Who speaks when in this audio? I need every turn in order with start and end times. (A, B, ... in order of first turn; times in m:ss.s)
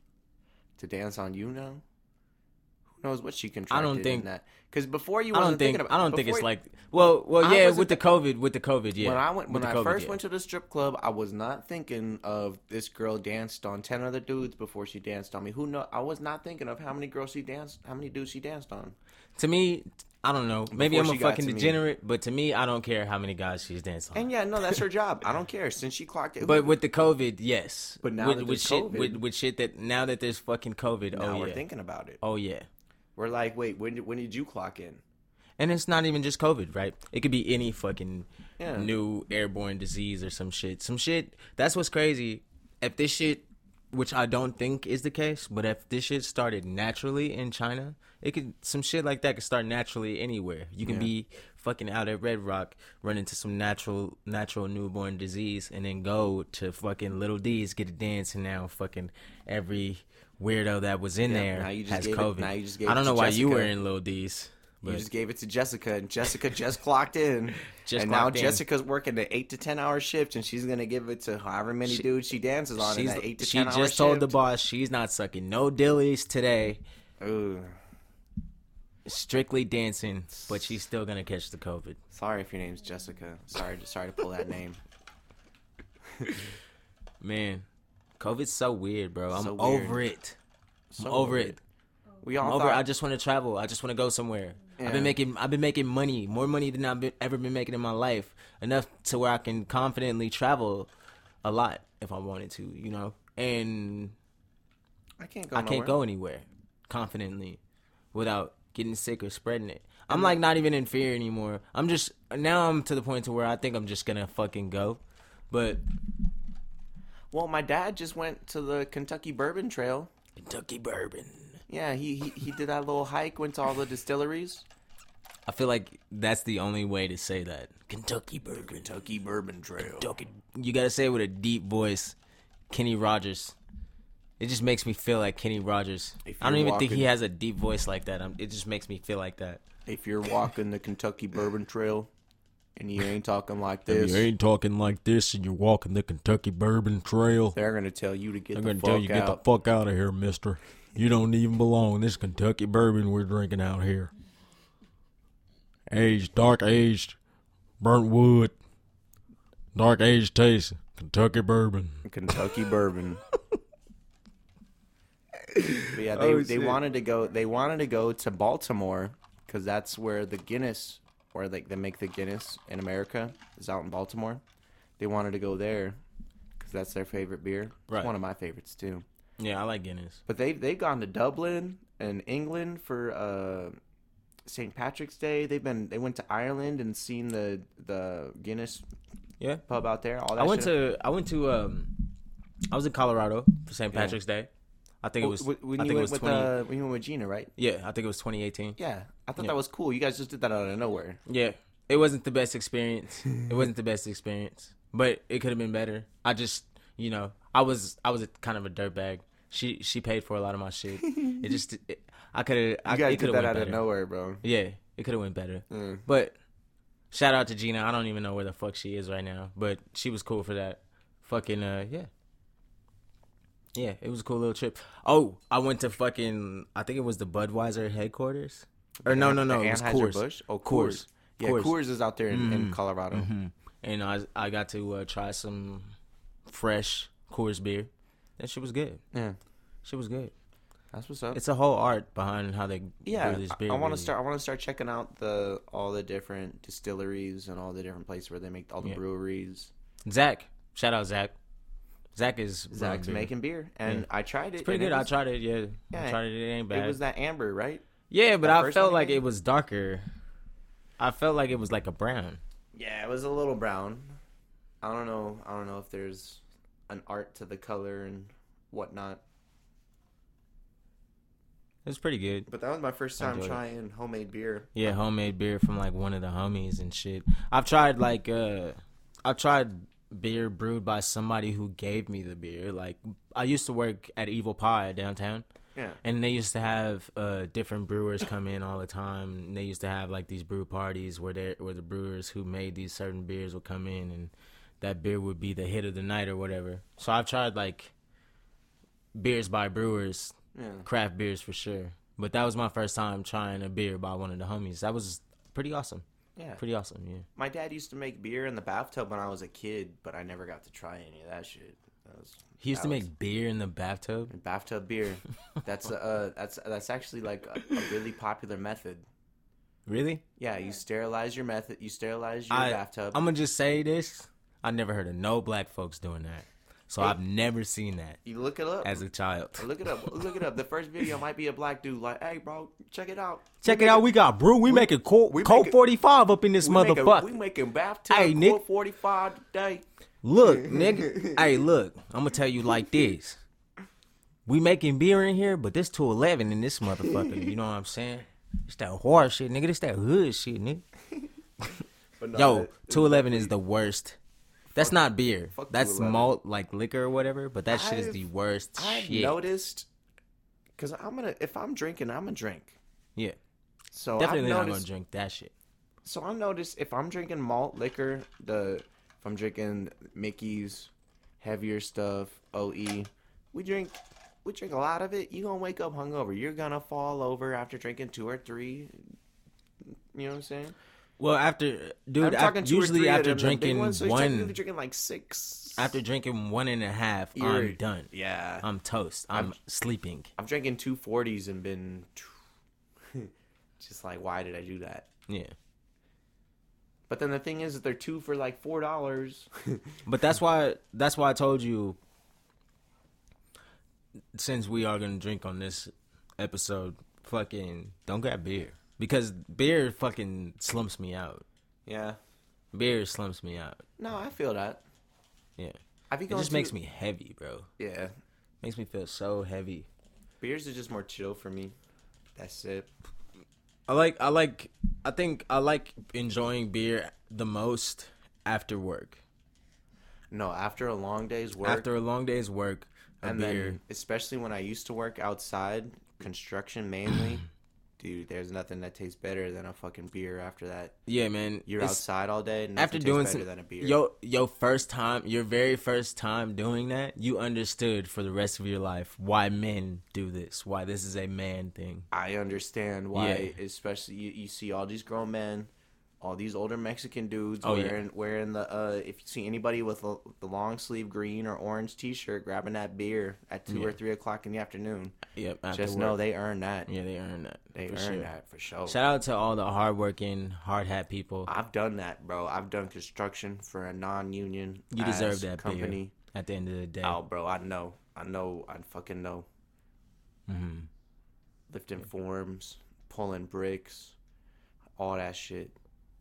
0:00.8-0:01.8 A
0:03.0-0:06.5 A
0:03.7-0:04.3 B
0:05.3-0:10.2 B
0:07.4-0:08.1 A
0:09.0-0:19.0 A
0:19.4-0:24.8 B
0:20.7-0:21.8 A
0:24.1-0:26.8 A
0:26.4-0:31.6 B
0:28.0-0:29.2 A
0:31.1-0:32.2 A
0:32.2-0:32.7 B
0:33.2-0:35.0 A
0:35.6-1:05.0 B
0:38.6-0:38.9 A
0:50.8-0:51.1 A
1:01.2-1:03.7 A
1:04.8-1:14.4 A
1:07.7-1:08.6 B
1:12.8-1:16.8 B
1:17.2-1:17.8 A
1:19.0-1:22.0 B
1:20.4-1:20.7 A
1:22.1-1:24.8 A
1:26.2-1:26.4 A
1:27.2-1:27.7 B
1:28.2-1:30.4 B
1:29.3-1:30.0 A
1:30.9-1:31.6 A
1:31.0-1:31.6 B
1:32.2-1:32.8 A
1:32.4-1:40.9 B
1:34.8-1:35.2 A
1:41.4-1:44.2 B
1:45.2-1:46.0 A
1:45.5-1:47.6 B
1:48.1-1:55.8 B
1:50.1-1:50.4 A
1:57.3-2:00.1 A
2:00.4-2:01.6 B
2:01.7-2:04.7 A
2:05.5-2:08.9 B
2:08.6-2:10.1 A
2:10.0-2:12.2 B
2:12.7-2:13.6 B
2:14.4-2:19.6 B
2:16.2-2:17.1 A
2:19.9-2:22.1 A
2:22.8-2:24.3 A
2:23.9-2:27.6 B
2:27.6-2:29.4 A
2:28.6-2:34.1 B
2:35.9-2:37.2 B
2:37.8-2:38.5 B
2:39.7-2:42.6 B
2:42.0-2:43.2 A
2:45.5-2:46.8 B
2:45.9-2:54.4 A
2:55.0-2:56.0 A
2:56.6-2:59.0 A
2:59.4-3:00.2 B
3:00.3-3:03.8 A
3:04.5-3:08.8 A
3:09.7-3:10.7 A
3:10.4-3:12.1 B
3:12.7-3:14.5 B
3:13.9-3:14.2 A
3:15.0-3:16.5 B
3:15.2-3:17.5 A
3:17.6-3:18.8 B
3:18.8-3:21.2 A
3:21.3-3:33.8 B
3:32.8-3:34.4 A
3:34.4-3:36.4 B
3:35.7-3:36.0 A
3:37.1-3:42.1 B
3:43.7-3:51.8 B
3:49.0-3:53.3 A
3:52.3-3:55.9 B
3:56.5-3:59.0 B
3:59.1-3:59.4 A
3:59.8-4:00.3 B
4:00.9-4:01.4 A
4:01.3-4:04.1 B
4:03.0-4:09.7 A
4:10.0-4:11.4 B
4:12.2-4:13.3 B
4:12.7-4:15.1 A
4:14.6-4:17.0 B
4:15.9-4:17.8 A
4:18.1-4:20.0 B
4:18.4-4:19.2 A
4:21.0-4:22.4 B
4:22.7-4:24.2 A
4:24.8-4:29.2 A
4:31.8-4:32.5 B
4:32.5-4:34.8 A
4:33.2-4:33.6 B
4:34.7-4:45.4 B
4:46.0-4:57.9 B
4:59.2-5:00.4 B
5:00.6-5:00.9 A
5:00.9-5:06.0 B
5:06.4-5:06.6 A
5:06.6-5:07.3 B
5:07.4-5:13.1 A
5:12.6-5:14.3 B
5:14.3-5:19.0 A
5:19.9-5:20.2 B
5:20.4-5:23.2 A
5:22.5-5:28.2 B
5:28.2-5:34.1 A
5:28.8-5:30.1 B
5:33.6-5:37.3 B
5:34.7-5:35.8 A
5:36.6-5:39.8 A
5:38.1-5:38.6 B
5:40.2-5:43.4 B
5:40.4-5:41.4 A
5:44.5-5:50.8 B
5:52.2-5:53.5 A
5:52.4-5:54.2 B
5:54.8-5:59.4 B
5:55.5-5:56.3 A
5:57.7-5:58.2 A
5:58.8-5:59.9 A
6:00.8-6:02.8 A
6:03.9-6:04.9 A
6:04.2-6:05.5 B
6:06.0-6:19.0 A
6:20.1-6:20.8 A
6:21.2-6:24.6 B
6:22.2-6:26.0 A
6:25.8-6:28.1 B
6:27.4-6:28.7 A
6:28.6-6:30.3 B
6:30.4-6:32.4 A
6:33.1-6:35.1 A
6:35.3-6:35.6 B
6:37.1-6:39.9 A
6:40.1-6:42.0 B
6:44.3-6:51.4 B
6:51.9-6:52.2 A
6:52.7-6:53.8 B
6:54.0-6:54.8 A
6:56.1-6:56.8 A
6:56.3-6:57.7 B
6:57.8-6:58.1 A
6:58.6-6:59.9 B
7:00.4-7:01.8 A
7:02.4-7:02.9 A
7:03.9-7:09.2 B
7:10.3-7:11.9 A
7:11.6-7:13.8 B
7:13.2-7:17.5 A
7:18.0-7:21.0 A
7:21.1-7:22.0 B
7:21.7-7:24.0 A
7:22.8-7:32.1 B
7:32.1-7:35.7 A
7:33.1-7:33.5 B
7:36.2-7:45.2 A
7:37.6-7:38.0 B
7:43.7-7:44.0 B
7:45.3-7:46.2 B
7:45.7-7:46.9 A
7:46.9-7:48.3 B
7:47.7-7:49.0 A
7:48.9-7:51.5 B
7:51.5-7:56.1 A
7:54.9-7:57.2 B
7:57.0-7:59.5 A
8:00.5-8:00.9 B
8:01.7-8:04.2 A
8:05.0-8:05.8 A